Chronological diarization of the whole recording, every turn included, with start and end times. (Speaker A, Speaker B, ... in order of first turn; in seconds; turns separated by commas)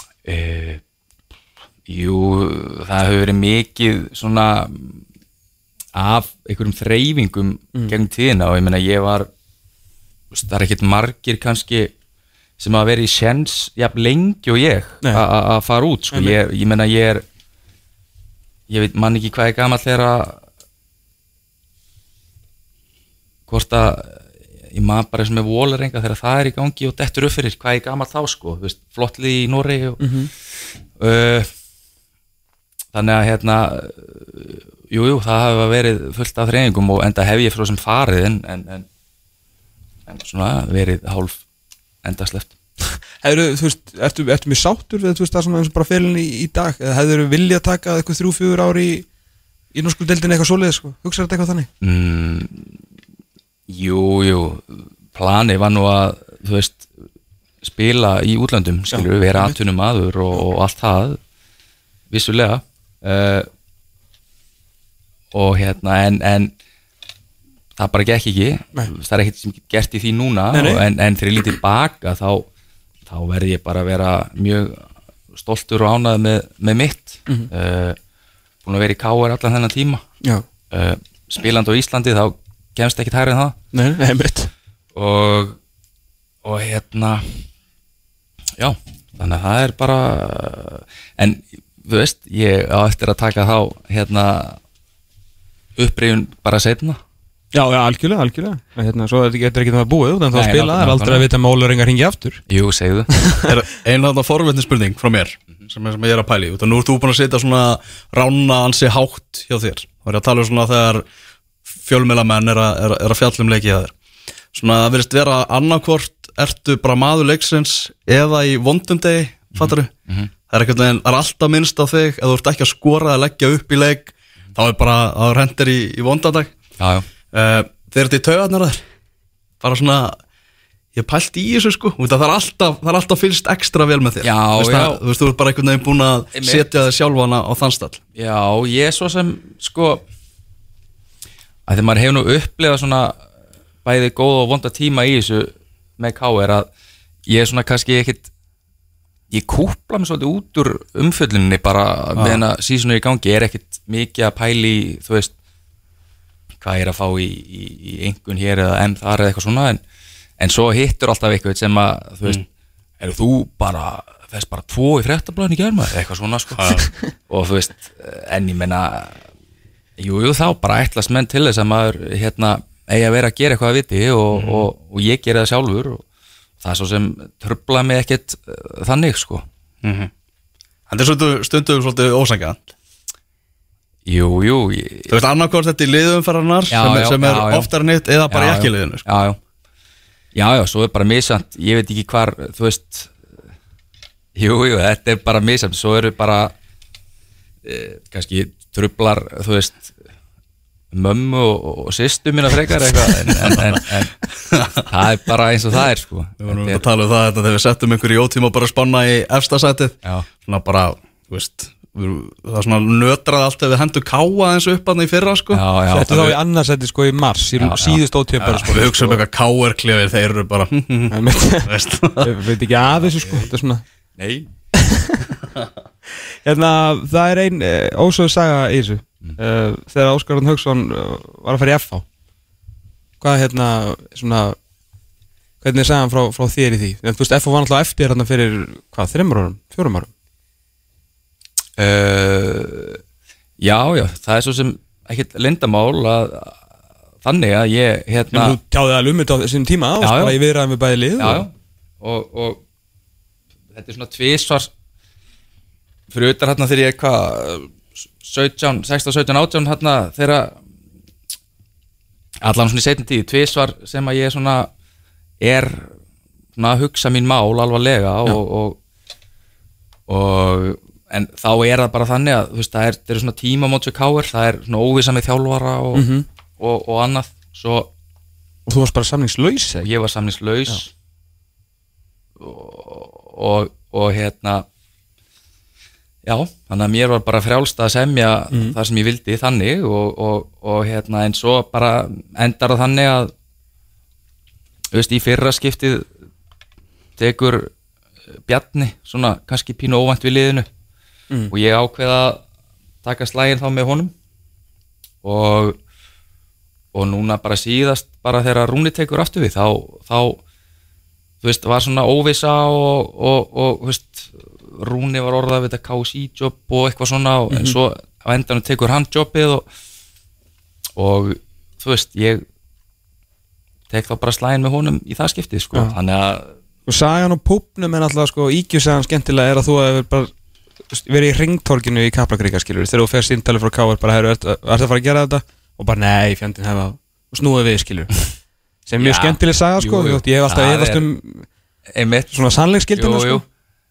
Speaker A: 0.2-0.8, Speaker A: 1.9-5.0, Speaker A: 5.9-9.3, Speaker A: 10.3-11.9, Speaker A: 12.6-17.2, Speaker B: 16.1-16.4, Speaker A: 18.7-20.4, Speaker A: 23.5-30.1, Speaker B: 30.0-30.3, Speaker A: 30.9-31.5, Speaker A: 32.9-38.9, Speaker A: 40.1-41.4, Speaker A: 42.0-42.5, Speaker B: 43.2-49.1, Speaker B: 49.7-51.7, Speaker A: 51.8-52.7, Speaker A: 53.7-56.9, Speaker A: 57.6-61.2, Speaker B: 58.9-59.5, Speaker A: 62.1-63.5, Speaker A: 65.3-66.5, Speaker A: 67.8-72.5, Speaker B: 70.5-70.8, Speaker A: 73.0-78.0, Speaker A: 78.6-80.0, Speaker A: 80.7-83.5, Speaker B: 83.7-84.5, Speaker A: 84.9-85.6, Speaker A: 86.4-87.4, Speaker A: 88.6-94.6, Speaker A: 95.8-97.0, Speaker B: 97.5-102.4, Speaker A: 100.3-101.2, Speaker A: 102.5-103.1, Speaker B: 103.1-103.5, Speaker C: 103.4-111.0, Speaker C: 111.8-113.9, Speaker C: 114.5-119.9, Speaker A: 119.5-120.3, Speaker C: 120.5-126.6, Speaker A: 126.8-127.1, Speaker C: 127.3-128.8, Speaker C: 129.6-130.2, Speaker C: 130.9-138.0, Speaker A: 134.2-135.0, Speaker A: 136.3-136.7, Speaker A: 138.2-140.0, Speaker A: 141.7-143.2, Speaker A: 143.8-146.7, Speaker A: 147.3-148.3, Speaker A: 149.3-155.3, Speaker C: 152.2-152.4, Speaker A: 156.6-159.8, Speaker A: 160.4-162.4, Speaker A: 163.0-166.6, Speaker C: 166.5-166.8, Speaker A: 167.3-169.2, Speaker A: 170.0-176.0, Speaker C: 174.3-174.7, Speaker A: 176.6-179.4, Speaker C: 179.8-180.1, Speaker C: 180.9-182.7, Speaker A: 184.1-185.1, Speaker C: 185.1-189.1, Speaker A: 186.7-187.7, Speaker A: 188.3-189.4, Speaker A: 190.3-193.1, Speaker A: 194.3-196.5, Speaker A: 197.6-199.9, Speaker A: 200.9-204.1, Speaker C: 203.2-203.8, Speaker C: 204.3-204.8, Speaker A: 204.8-206.8, Speaker C: 206.4-215.6, Speaker A: 215.5-216.4, Speaker B: 215.9-219.2, Speaker A: 217.6-217.9, Speaker C: 218.4-222.3, Speaker B: 221.1-223.8, Speaker A: 223.2-223.5, Speaker A: 224.2-224.5, Speaker B: 224.7-225.2, Speaker B: 226.4-232.0, Speaker B: 233.2-234.6, Speaker B: 235.6-240.1, Speaker A: 241.8-243.0, Speaker A: 243.6-246.6, Speaker A: 247.2-248.6, Speaker B: 248.3-251.4, Speaker A: 250.0-250.3, Speaker A: 251.2-252.6, Speaker A: 253.7-254.7, Speaker A: 256.1-260.6, Speaker A: 262.4-264.7, Speaker A: 265.4-265.9, Speaker A: 266.6-268.8, Speaker A: 270.1-276.1, Speaker B: 275.9-276.2, Speaker A: 276.6-277.9, Speaker B: 278.6-279.9, Speaker A: 279.8-280.9, Speaker A: 282.4-284.6, Speaker A: 286.2-293.3, Speaker B: 288.5-288.8, Speaker A: 294.9-296.1, Speaker A: 297.2-297.7, Speaker A: 298.5-300.7, Speaker A: 301.5-302.4, Speaker A: 303.0-304.1, Speaker A: 305.2-305.8, Speaker A: 306.9-310.4, Speaker A: 311.4-319.6, Speaker B: 317.5-317.8, Speaker A: 320.9-322.4, Speaker A: 323.9-326.5, Speaker B: 326.9-330.3, Speaker B: 330.9-338.1, Speaker B: 338.9-341.5, Speaker A: 339.0-341.1, Speaker A: 341.9-342.4, Speaker B: 342.3-343.4, Speaker A: 342.9-343.4